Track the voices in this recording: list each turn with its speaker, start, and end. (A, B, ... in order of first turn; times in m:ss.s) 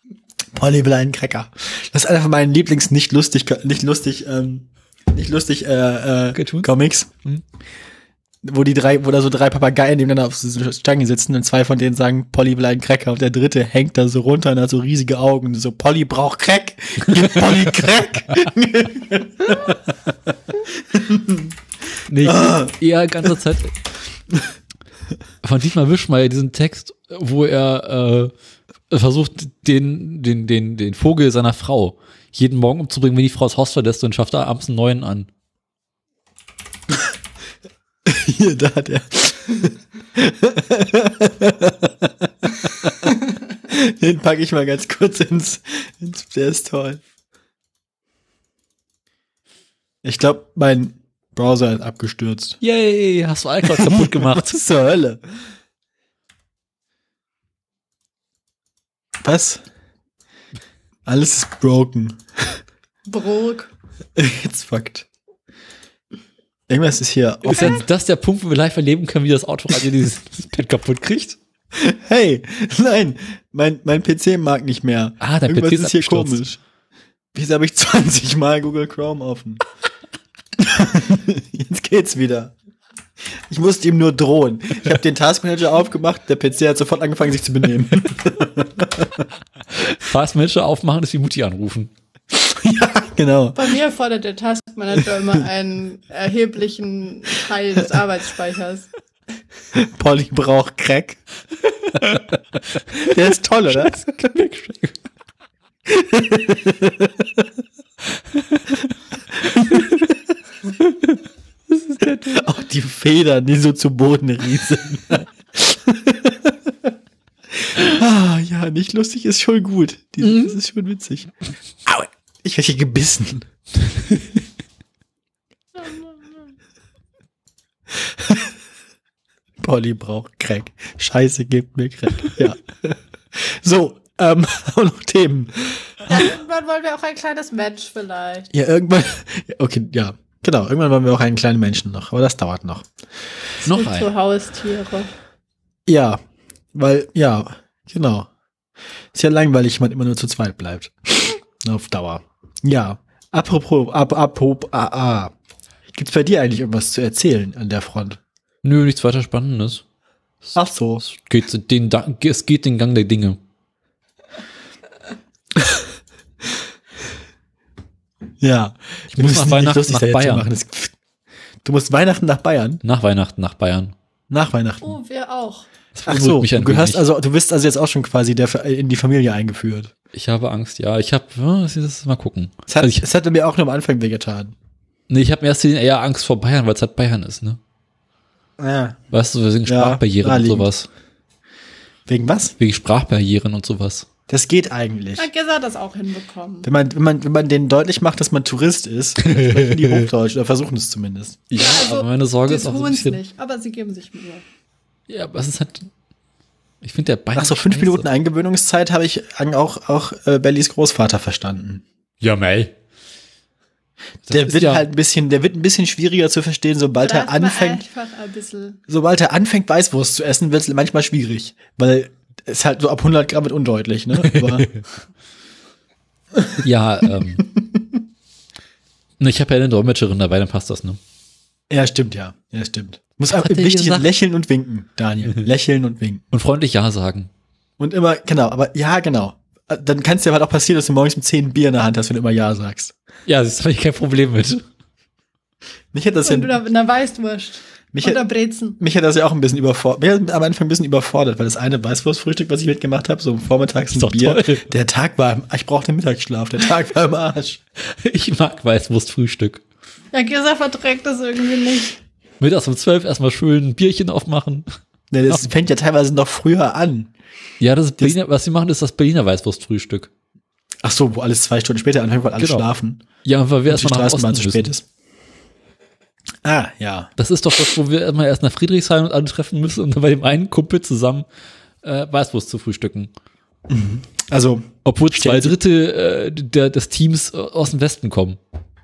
0:00.5-0:07.1 A
0:06.3-0:06.7 B
0:08.4-0:19.8 A
0:17.2-0:17.6 B
0:20.6-0:21.5 A
0:22.1-0:23.7 B
0:22.2-0:22.7 A
0:25.4-0:28.3 B
0:28.9-0:35.3 B
0:38.0-0:43.2 A
0:43.7-0:47.0 A
0:50.0-0:52.6 A
0:52.6-0:54.6 B
0:53.7-0:55.2 A
0:59.2-0:59.6 A
1:01.0-1:02.6 A
1:03.0-1:03.7 C
1:04.2-1:05.1 A
1:06.7-1:07.8 A
1:07.4-1:11.4 B
1:11.7-1:16.6 A
1:15.2-1:16.4 B
1:17.3-1:19.6 A
1:20.6-1:22.5 A
1:23.5-1:29.2 A
1:29.8-1:31.9 B
1:32.3-1:33.7 A
1:33.6-1:38.9 C
1:39.7-1:41.2 A
1:42.9-1:44.0 A
1:43.7-1:44.9 B
1:45.9-1:47.4 A
1:48.3-1:48.8 B
1:49.5-1:49.9 A
1:49.6-1:49.9 B
1:51.7-1:52.4 B
1:52.1-1:56.7 A
1:57.6-2:01.3 A
2:00.2-2:00.6 B
2:01.8-2:03.5 A
2:08.0-2:08.5 A
2:09.6-2:16.2 A
2:16.1-2:18.5 C
2:18.5-2:22.9 A
2:23.6-2:24.1 B
2:23.7-2:25.1 C
2:25.9-2:26.2 A
2:26.7-2:28.3 A
2:29.1-2:35.3 A
2:35.9-2:38.2 A
2:38.6-2:39.8 B
2:40.5-2:41.0 A
2:41.0-2:43.4 B
2:48.4-2:50.9 A
2:49.1-2:50.5 B
2:51.6-2:52.8 A
2:52.8-2:53.9 B
2:54.3-2:55.0 A
2:54.8-2:55.7 C
2:55.9-2:57.0 B
2:56.0-2:59.9 A
3:00.1-3:03.0 B
3:02.7-3:04.5 A
3:05.1-3:07.6 B
3:08.6-3:09.0 A
3:09.1-3:10.9 B
3:09.6-3:10.7 A
3:12.1-3:12.5 A
3:12.6-3:14.1 B
3:14.3-3:15.3 A
3:15.2-3:16.7 C
3:16.6-3:21.4 A
3:19.2-3:20.1 B
3:21.5-3:23.2 B
3:21.5-3:24.4 C
3:25.1-3:25.9 B
3:26.8-3:28.0 B
3:27.3-3:31.8 A
3:32.2-3:32.7 B
3:34.3-3:34.8 B
3:34.3-3:37.8 A
3:37.0-3:38.8 C
3:38.9-3:44.7 A
3:44.2-3:44.8 B
3:46.4-3:46.6 A
3:46.6-3:47.4 B
3:49.2-3:51.0 B
3:51.7-3:56.2 A
3:53.3-3:54.1 B
3:56.3-3:57.3 B
3:57.8-4:02.9 A
4:03.2-4:04.6 B
4:05.9-4:06.6 A
4:06.2-4:08.8 C
4:07.9-4:08.2 A
4:08.8-4:17.6 A
4:13.9-4:14.7 B
4:17.9-4:19.6 B
4:20.1-4:22.0 C
4:22.4-4:24.7 B
4:25.1-4:27.1 A
4:27.6-4:30.1 B
4:30.8-4:33.0 A
4:32.4-4:32.6 B
4:33.2-4:34.7 B
4:33.7-4:34.8 A
4:36.4-4:37.1 A
4:37.2-4:41.2 B
4:41.8-4:43.1 B
4:43.7-4:45.5 A
4:44.8-4:48.4 B